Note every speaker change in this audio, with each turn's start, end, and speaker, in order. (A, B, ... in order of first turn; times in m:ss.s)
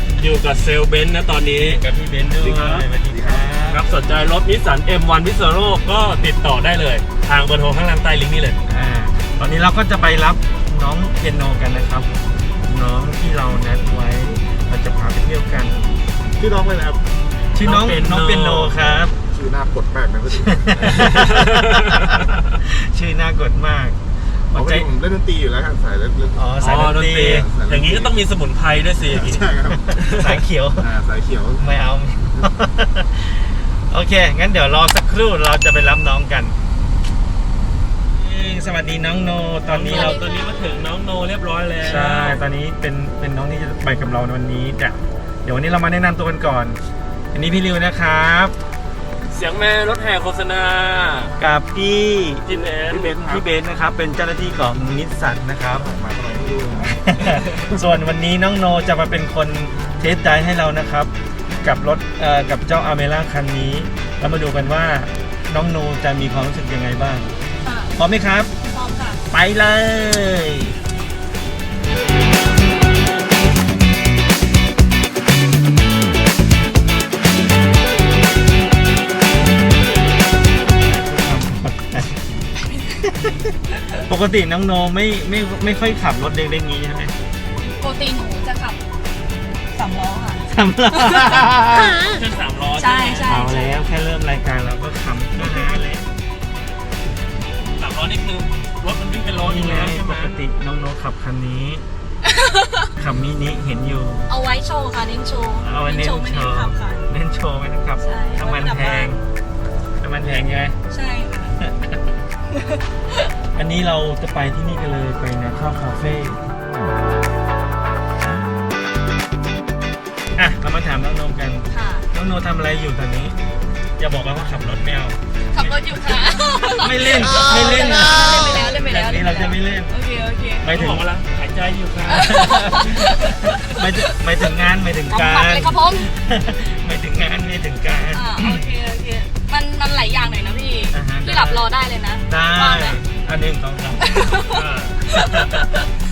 0:00.2-0:01.8 A
0:01.6-0:03.8 B
0:02.4-0:02.9 A
0:02.4-0:03.5 C
0:03.7-0:08.6 A
0:08.7-0:12.1 B
0:12.7-0:15.8 B
0:16.4-0:17.0 C
0:17.5-0:19.1 B
0:17.6-0:19.1 A
0:19.2-0:21.3 C
0:20.3-0:24.0 B
0:21.0-0:22.4 A
0:24.5-0:24.9 B
0:24.5-0:28.2 C
0:26.4-0:27.5 B
0:26.6-0:30.4 A
0:29.0-0:29.9 C
0:29.7-0:30.9 B
0:30.8-0:31.6 C
0:31.6-0:36.6 B
0:38.1-0:40.2 B
0:39.7-0:42.4 A
0:39.9-0:40.9 D
0:41.8-0:46.8 B
0:47.3-0:48.5 B
0:49.3-0:51.3 A
0:51.4-0:52.4 B
0:52.5-0:53.2 A
0:52.9-0:53.4 C
0:53.2-0:55.9 B
0:55.8-0:57.4 C
0:57.1-1:01.1 B
1:01.6-1:07.3 B
1:07.6-1:08.0 D
1:08.0-1:08.5 B
1:08.6-1:09.2 D
1:09.3-1:10.8 B
1:20.8-1:22.2 B
1:22.6-1:23.1 D
1:23.8-1:24.0 D
1:24.1-1:27.1 B
1:27.6-1:28.8 D
1:29.7-1:31.4 D
1:30.5-1:32.0 B
1:31.9-1:33.3 A
1:32.8-1:33.8 D
1:33.3-1:36.1 B
1:37.8-1:40.4 A
1:39.4-1:41.8 B
1:42.2-1:42.9 D
1:43.0-1:44.3 B
1:44.3-1:47.0 D
1:45.6-1:49.2 B
1:48.0-1:49.2 D
1:50.0-1:50.8 B
1:50.9-1:51.6 D
1:51.6-1:52.0 B
1:52.5-1:53.3 D
1:53.6-1:56.4 B
2:00.4-2:03.4 B
2:01.7-2:02.1 D
2:04.0-2:05.7 B
2:05.5-2:10.7 D
2:06.7-2:09.9 B
2:10.6-2:11.0 B
2:10.7-2:12.6 A
2:12.1-2:18.6 B
2:12.1-2:13.8 D
2:15.1-2:16.1 D
2:18.1-2:23.0 D
2:20.9-2:21.7 B
2:22.3-2:24.3 B
2:24.0-2:25.9 D
2:24.5-2:25.0 A